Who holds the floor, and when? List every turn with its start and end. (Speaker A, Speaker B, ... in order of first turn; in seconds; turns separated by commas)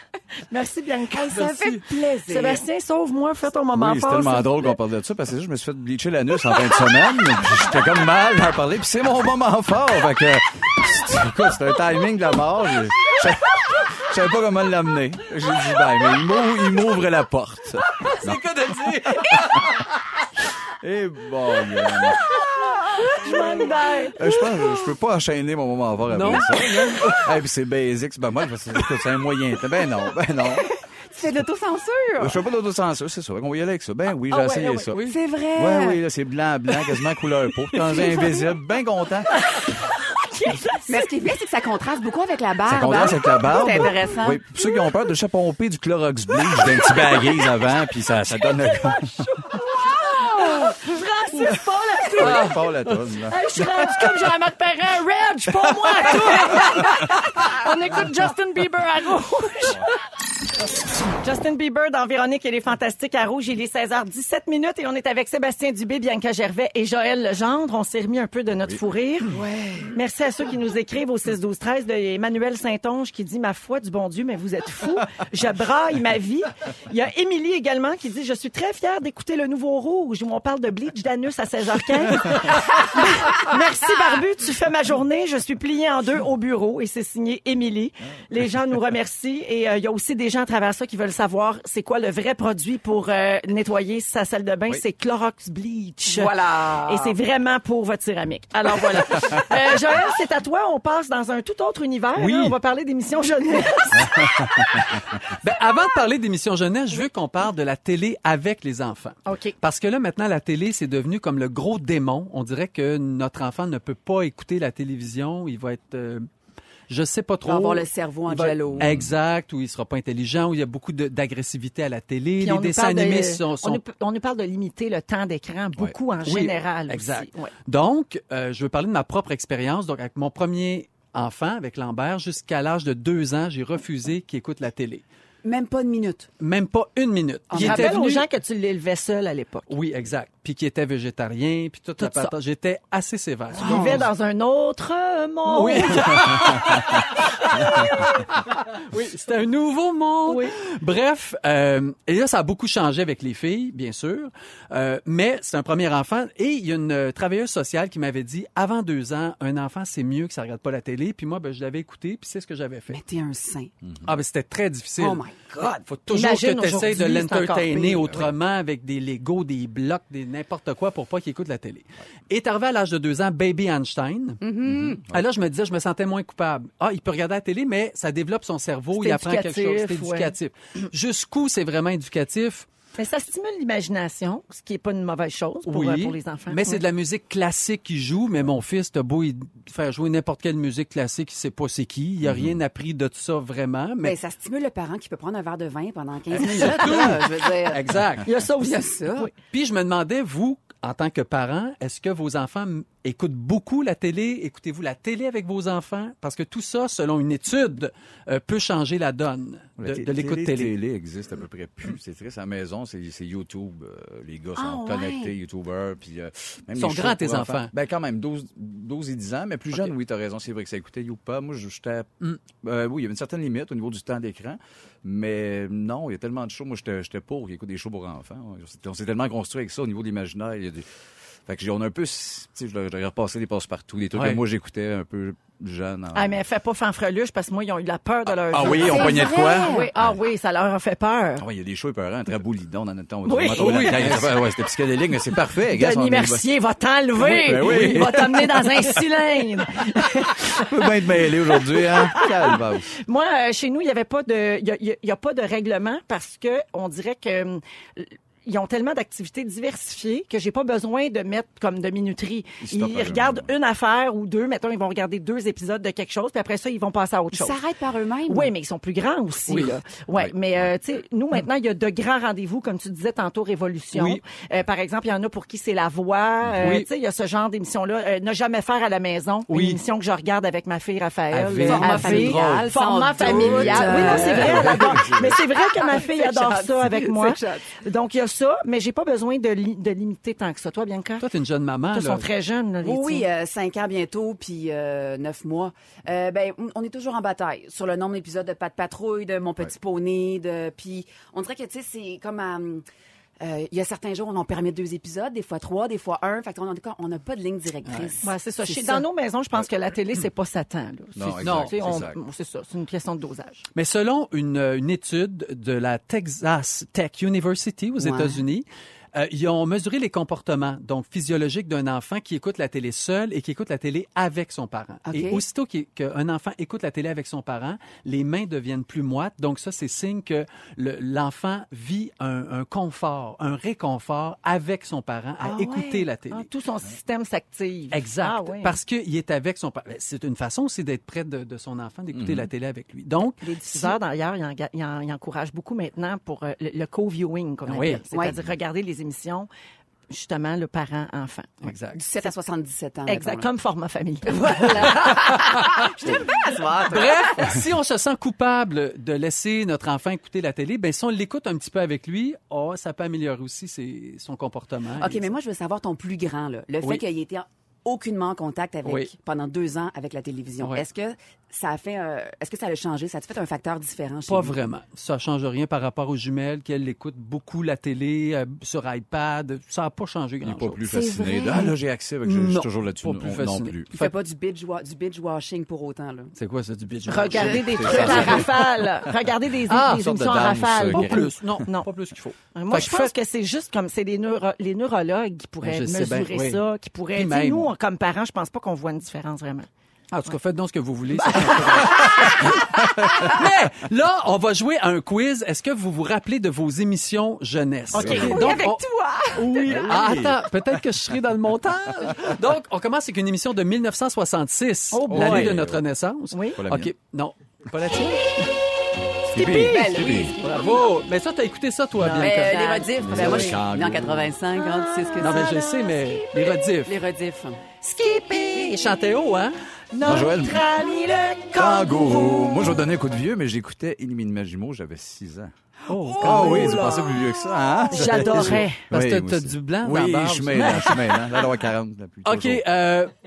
Speaker A: 0.5-1.5, Speaker B: 1.1-2.6, Speaker C: 1.3-1.9, Speaker A: 2.3-4.7, Speaker D: 3.7-18.4, Speaker C: 18.0-19.9, Speaker D: 20.8-22.3, Speaker A: 23.0-24.3, Speaker D: 24.2-30.7, Speaker C: 26.1-27.4, Speaker B: 31.1-32.4, Speaker D: 32.2-35.0, Speaker A: 34.3-34.9, Speaker C: 34.9-35.2, Speaker B: 35.0-36.0, Speaker D: 35.5-39.3, Speaker A: 40.1-41.1, Speaker B: 40.9-44.4, Speaker D: 42.6-49.3, Speaker A: 48.6-52.7, Speaker D: 52.1-53.7, Speaker C: 52.2-52.9, Speaker A: 53.2-60.0, Speaker A: 61.1-105.0, Speaker B: 69.3-69.9, Speaker B: 96.1-97.2, Speaker C: 102.2-102.6, Speaker C: 105.3-116.3, Speaker A: 109.3-109.5, Speaker C: 116.9-123.8, Speaker B: 117.5-118.9, Speaker D: 118.7-119.1, Speaker A: 122.4-127.5, Speaker C: 126.2-135.0, Speaker B: 135.4-136.3, Speaker C: 136.4-138.3, Speaker B: 137.5-137.9, Speaker A: 137.6-139.7, Speaker C: 139.7-144.1, Speaker A: 142.0-142.3, Speaker A: 143.5-147.0, Speaker B: 143.6-143.9, Speaker C: 145.5-163.0, Speaker A: 150.3-150.5, Speaker B: 162.9-163.7, Speaker C: 164.0-165.2, Speaker B: 165.0-165.8, Speaker C: 165.8-174.4, Speaker A: 166.1-168.3, Speaker B: 174.4-175.0, Speaker D: 174.6-175.2, Speaker C: 175.0-182.7, Speaker A: 179.0-180.3, Speaker A: 183.0-186.8, Speaker C: 185.7-194.2, Speaker D: 192.2-192.6, Speaker B: 194.0-197.9, Speaker C: 196.4-198.3, Speaker A: 198.2-199.3, Speaker B: 198.6-199.3, Speaker C: 199.5-210.7, Speaker D: 209.8-230.9, Speaker B: 214.6-215.3, Speaker C: 216.8-217.7, Speaker D: 231.5-236.4, Speaker C: 234.1-234.4, Speaker A: 236.1-241.5, Speaker D: 238.3-240.2, Speaker B: 238.7-239.9, Speaker D: 241.4-246.5, Speaker A: 243.2-244.1, Speaker C: 243.6-244.4, Speaker A: 245.7-267.6, Speaker D: 247.2-249.0, Speaker C: 247.2-248.1, Speaker D: 250.4-253.0, Speaker D: 262.6-263.5, Speaker B: 267.3-268.5, Speaker A: 268.3-291.2, Speaker C: 269.5-269.8, Speaker D: 270.2-270.7, Speaker C: 273.9-274.2, Speaker C: 276.6-276.9, Speaker C: 279.5-279.8, Speaker C: 281.3-282.7, Speaker B: 281.6-287.7, Speaker D: 283.2-285.3, Speaker C: 283.3-284.7, Speaker C: 291.2-292.3, Speaker A: 291.9-293.3, Speaker B: 292.8-302.8, Speaker B: 303.4-309.1, Speaker C: 307.9-308.1, Speaker A: 308.2-313.6, Speaker D: 311.2-312.2, Speaker C: 311.4-311.8, Speaker C: 313.8-336.5, Speaker B: 318.0-318.4, Speaker B: 325.1-325.4, Speaker B: 335.4-336.0, Speaker A: 336.3-338.8, Speaker C: 337.9-343.9, Speaker D: 342.1-342.5, Speaker A: 343.4-349.5, Speaker C: 347.7-348.0, Speaker A: 350.1-351.6, Speaker C: 351.6-352.0, Speaker B: 351.9-353.5, Speaker A: 353.1-355.2, Speaker B: 354.3-357.5, Speaker C: 354.9-356.2, Speaker C: 356.8-365.3, Speaker B: 365.0-374.6, Speaker C: 368.9-369.1, Speaker C: 374.3-380.9, Speaker D: 380.4-383.9, Speaker B: 380.9-381.6, Speaker C: 382.2-384.1, Speaker B: 383.9-386.3, Speaker C: 386.4-388.6, Speaker A: 387.1-391.9, Speaker B: 387.3-388.4, Speaker D: 387.7-388.5, Speaker C: 389.7-390.1, Speaker D: 389.8-391.3, Speaker C: 390.8-393.1, Speaker A: 392.6-399.7, Speaker C: 395.6-396.6, Speaker C: 397.1-397.7, Speaker C: 400.1-408.8, Speaker A: 401.1-402.6, Speaker A: 407.9-408.8, Speaker D: 407.9-408.4, Speaker B: 408.1-409.8, Speaker C: 409.4-418.5, Speaker D: 409.6-410.8, Speaker A: 414.9-415.6, Speaker D: 415.1-415.8, Speaker A: 416.3-416.6, Speaker D: 416.6-416.9, Speaker D: 419.3-420.4, Speaker C: 419.4-423.5, Speaker B: 419.4-420.8, Speaker A: 422.1-422.8, Speaker B: 422.2-425.6, Speaker D: 423.0-424.3, Speaker C: 425.2-426.9, Speaker B: 426.8-427.6, Speaker A: 427.8-428.8, Speaker C: 428.3-429.5, Speaker A: 429.9-432.7, Speaker D: 430.0-430.6, Speaker D: 431.6-435.5, Speaker C: 435.9-436.9, Speaker A: 436.1-437.0, Speaker D: 436.2-442.6, Speaker A: 437.9-438.8, Speaker C: 438.2-441.0, Speaker A: 440.6-441.0, Speaker C: 442.2-443.1